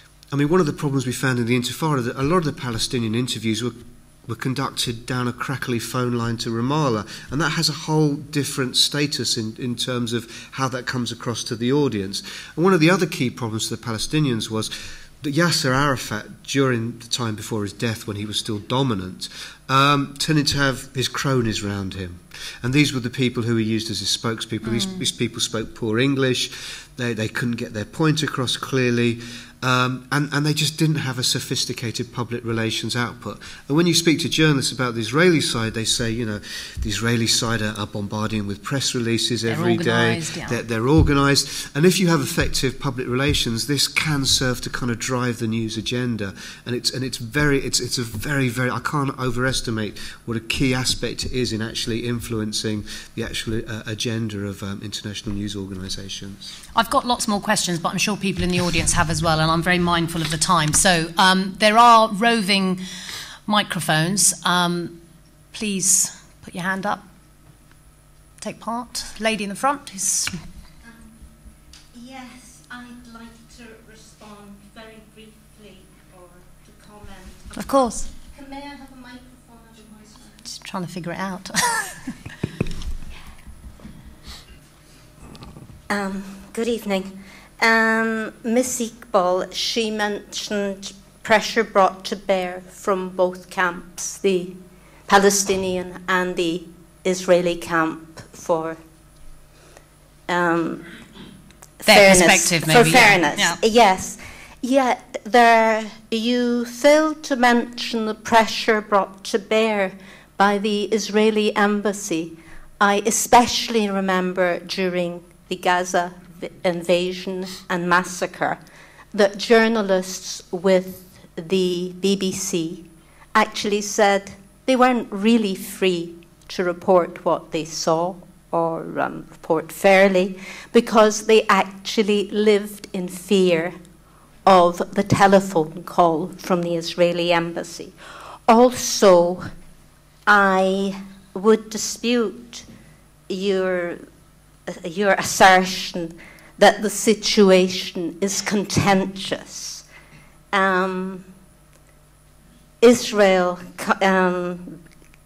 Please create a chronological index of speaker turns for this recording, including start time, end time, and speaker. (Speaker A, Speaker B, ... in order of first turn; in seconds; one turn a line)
Speaker A: 0.3-56.6
Speaker B: 24.6-25.0
Speaker B: 39.5-40.6
Speaker B: 56.7-62.8
Speaker B: 63.5-65.0
Speaker B: 65.5-67.0
Speaker B: 68.4-70.4
Speaker C: 71.9-77.5
Speaker B: 77.5-78.1
Speaker C: 78.2-80.3
Speaker B: 80.5-82.1
Speaker C: 85.9-94.5
Speaker C: 95.1-98.8
Speaker C: 100.3-100.8
Speaker C: 101.8-118.6
Speaker B: 101.8-103.6
Speaker C: 119.1-133.8
Speaker C: 134.4-139.5
Speaker C: 140.3-142.7
Speaker C: 143.3-144.1
Speaker C: 144.7-149.8
Speaker C: 150.5-151.2
Speaker C: 152.8-154.8